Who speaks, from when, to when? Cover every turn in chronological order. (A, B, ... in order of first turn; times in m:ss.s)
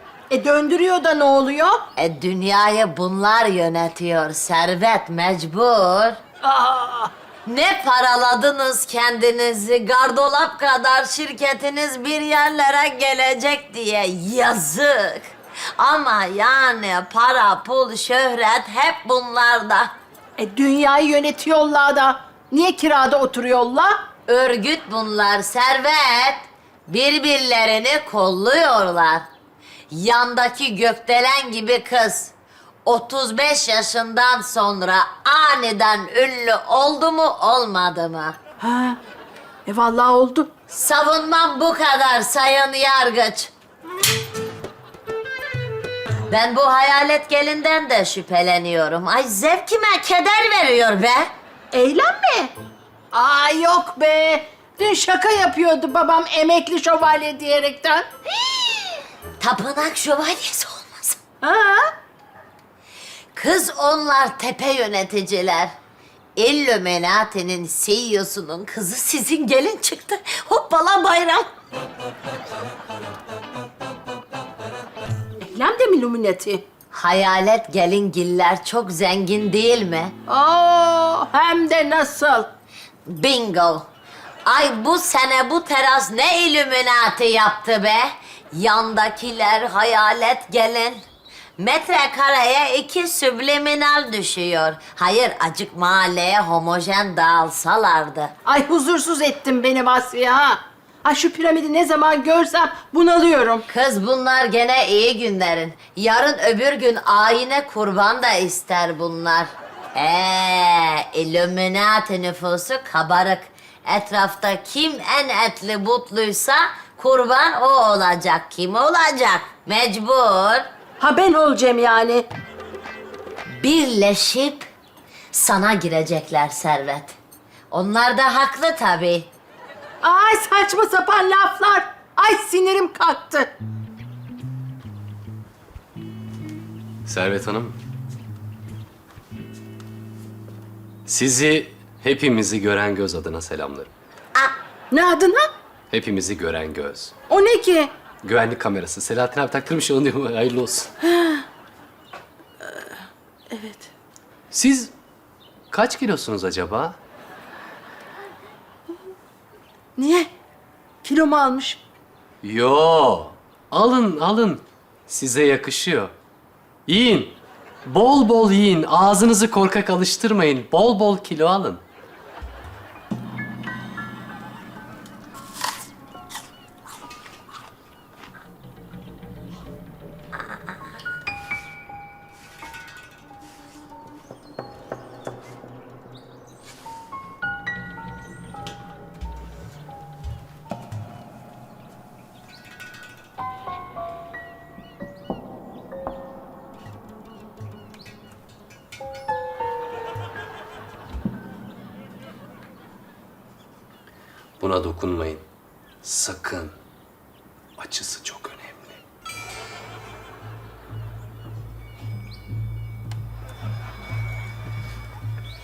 0:00.3-0:01.8 A
0:02.0-0:06.2 B
0:06.4-0:07.1 A
0:07.4-0:19.9 B
0:20.4-0:24.0 A
0:24.3-0:29.3 B
0:29.9-0:32.3 B
0:32.8-0:38.4 B
0:38.6-0:39.0 A
0:39.6-0:40.5 A
0:40.7-0:43.5 B
0:46.3-0:51.3 B
0:51.7-0:52.5 A
0:53.1-0:58.1 A
0:59.4-1:01.2 B
1:01.4-1:01.9 A
1:03.3-1:05.7 B
1:06.4-1:11.5 B
1:15.4-1:16.6 A
1:16.9-1:20.1 B
1:20.3-1:22.5 A
1:23.0-1:23.8 B
1:24.4-1:31.0 B
1:31.6-1:38.3 B
1:38.4-1:43.6 A
1:43.7-2:00.7 B
2:01.0-2:02.2 A
2:03.6-2:04.7 B
2:05.3-2:07.2 B
2:07.7-2:09.3 B
2:10.0-2:13.5 A
2:17.0-2:17.8 C
2:21.0-2:23.9 C
2:24.9-2:25.5 A
2:25.9-2:27.1 C
2:27.3-2:27.9 A
2:28.2-2:30.9 C
2:31.0-2:31.4 A
2:33.5-2:33.9 A
2:34.5-2:34.9 C
2:35.7-2:37.0 C
2:40.0-2:40.3 A
2:41.0-2:41.8 A
2:42.4-2:46.1 C
2:46.9-2:51.8 C
3:24.6-3:25.4 C
3:26.0-3:26.7 C
3:27.8-3:29.0 C